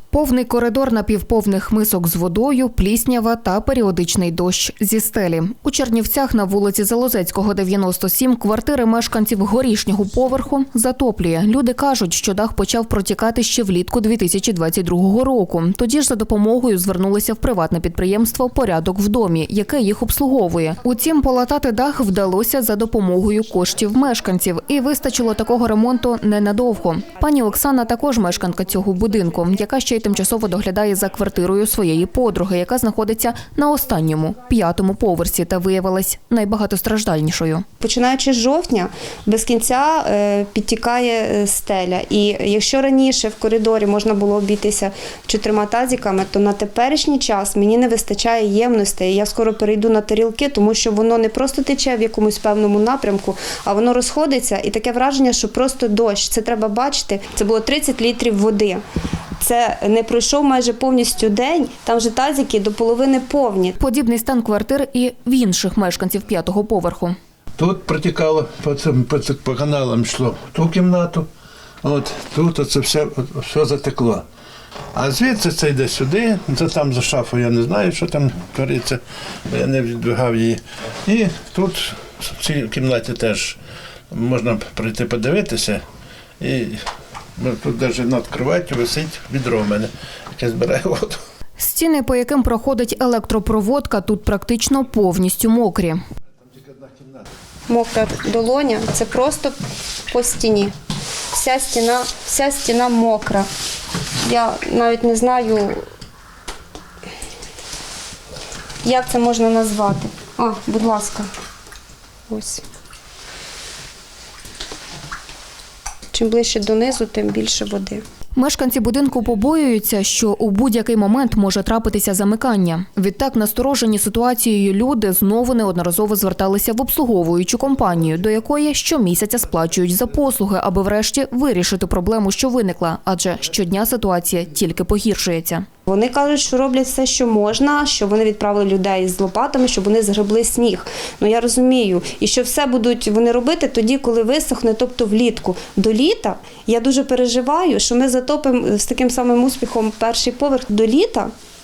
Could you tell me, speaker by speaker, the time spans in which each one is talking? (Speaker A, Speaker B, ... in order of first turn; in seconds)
Speaker A: 0.1-37.6, 63.8-67.2, 91.6-96.0, 118.4-135.7
Speaker B: 37.8-58.8, 59.4-63.8, 97.7-99.6, 100.1-100.7, 101.3-103.5, 104.2-105.8, 108.8-111.3, 112.3-112.6, 116.1-118.0, 135.9-151.3
Speaker C: 67.6-71.3, 71.8-74.2, 75.0-83.6, 84.1-85.8, 86.4-86.8, 87.4-91.2